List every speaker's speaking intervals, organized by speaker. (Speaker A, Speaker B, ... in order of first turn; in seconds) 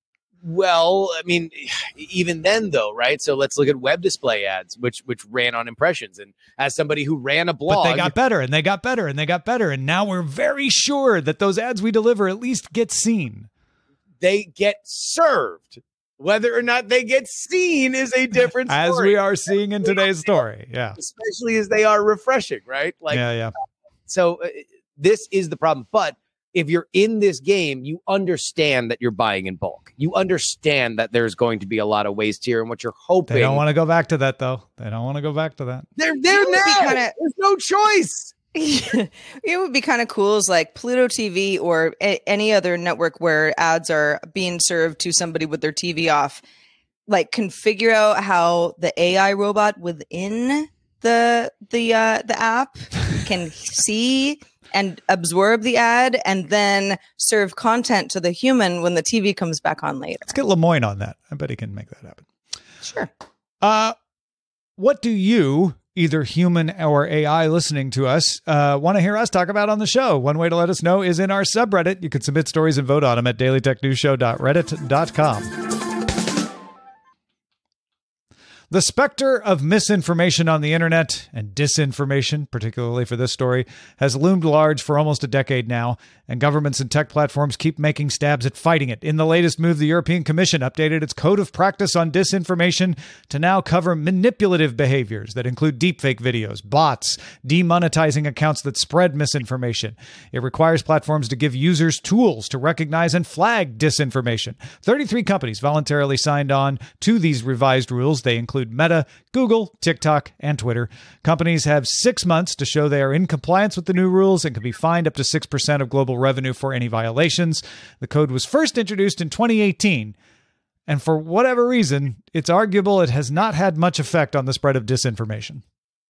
Speaker A: 0.4-8.1, 14.2-19.1, 21.0-23.2, 24.1-33.6, 36.0-38.3
Speaker B: 7.7-13.5, 18.7-21.0, 23.1-23.5, 33.3-35.9, 60.3-62.2, 63.6-63.9, 64.8-75.5, 78.7-120.1, 120.9-125.6
Speaker C: 36.3-37.1, 38.5-46.4, 47.1-60.3, 62.8-63.1